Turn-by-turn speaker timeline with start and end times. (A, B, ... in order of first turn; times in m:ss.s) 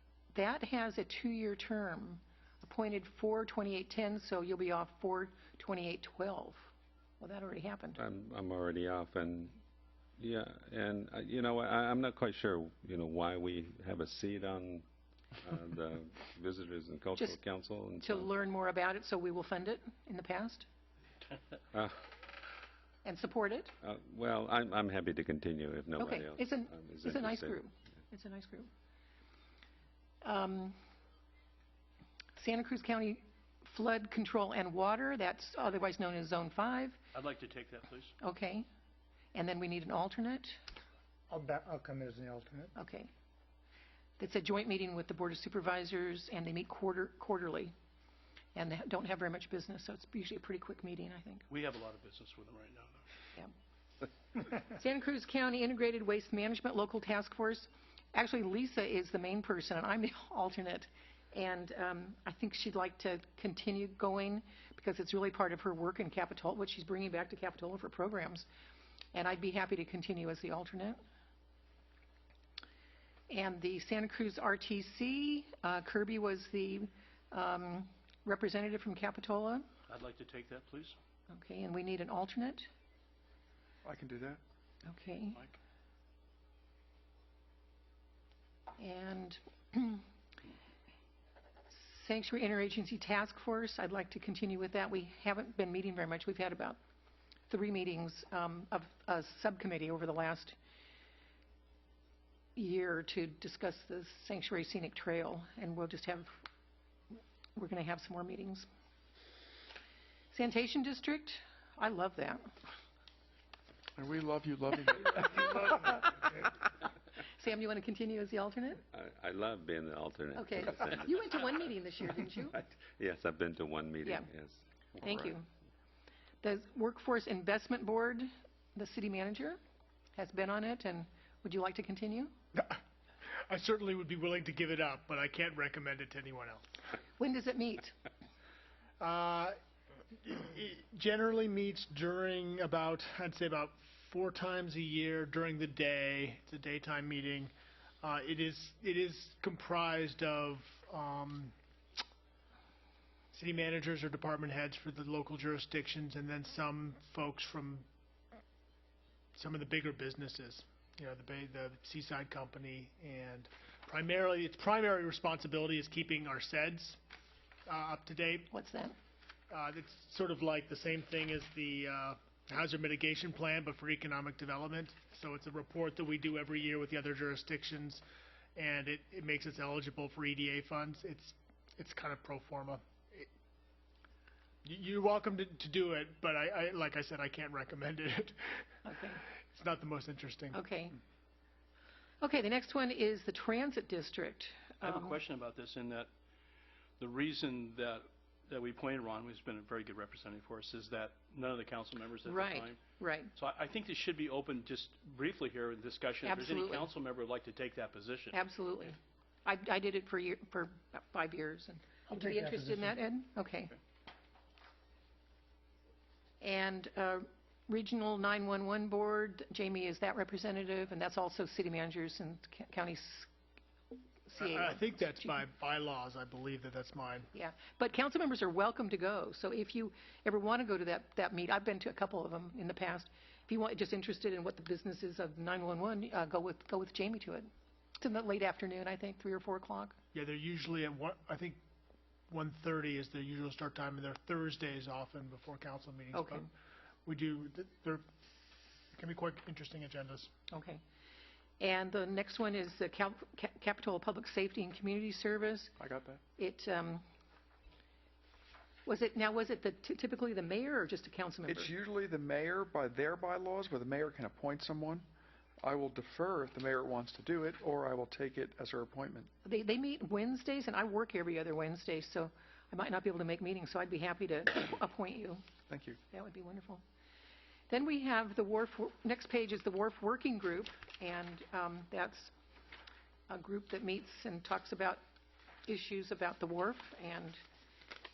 0:00.3-0:08.0 A
0:07.9-0:09.6 B
0:10.2-0:14.8 B
0:15.4-0:18.3 B
0:18.0-0:20.7 A
0:21.7-0:22.0 B
0:23.0-0:23.7 A
0:23.8-0:27.6 B
0:26.0-0:28.7 A
0:30.2-0:30.8 A
0:32.4-0:37.0 A
0:37.1-0:38.1 C
0:38.2-0:38.6 A
0:39.3-0:40.6 A
0:41.3-0:42.7 D
0:42.8-0:43.1 A
0:44.2-0:47.7 A
0:48.5-0:51.5 A
0:51.5-0:53.0 C
0:54.4-1:08.5 A
1:09.1-1:11.0 A
1:13.3-1:19.7 A
1:19.9-1:21.0 C
1:21.3-1:22.7 A
1:23.8-1:24.4 E
1:24.8-1:25.4 A
1:28.8-1:30.0 A
1:31.7-1:36.8 A
1:37.5-1:40.6 A
1:42.6-1:46.3 A
1:47.6-1:48.7 A
1:50.3-1:52.5 A
1:54.0-1:56.1 E
1:57.2-1:58.8 A
1:58.9-2:01.6 B
2:00.3-2:02.6 A
2:02.5-2:05.3 B
2:05.0-2:05.4 A
2:06.4-2:09.6 A
2:10.2-2:12.3 A
2:12.5-2:12.8 F
2:13.3-2:16.7 F
2:17.2-2:17.9 A
2:19.0-2:19.6 F
2:20.1-2:31.5 F
2:33.3-2:37.8 F
2:39.3-2:47.0 F
2:47.7-2:48.5 F
2:48.5-2:49.0 A
2:49.5-2:58.0 F
2:58.6-3:03.3 F
3:04.6-3:08.8 F
3:08.8-3:09.2 A
3:09.5-3:10.6 F
3:10.5-3:11.0 A
3:12.2-3:15.2 A
3:14.8-3:16.1 C
3:17.0-3:22.8 C
3:22.2-3:23.3 A
3:23.4-3:28.4 C
3:26.2-3:26.9 A
3:28.3-3:33.8 A
3:32.1-3:32.9 D
3:36.4-3:43.3 A
3:44.3-3:45.4 A
3:44.4-3:47.3 F
3:47.3-4:00.0 A
4:00.1-4:01.6 F
4:02.3-4:06.5 F
4:06.1-4:06.5 A
4:07.0-4:08.0 F
4:08.9-4:10.3 F
4:10.5-4:10.8 A
4:11.6-4:15.8 A
4:15.8-4:16.2 E
4:16.4-4:17.0 A
4:18.8-4:21.7 A
4:21.5-4:25.1 E
4:25.6-4:29.3 E
4:29.4-4:35.4 A
4:35.7-4:36.0 E
4:36.1-4:36.8 A
4:37.7-4:42.3 A
4:43.3-4:45.0 A
4:45.6-4:47.4 A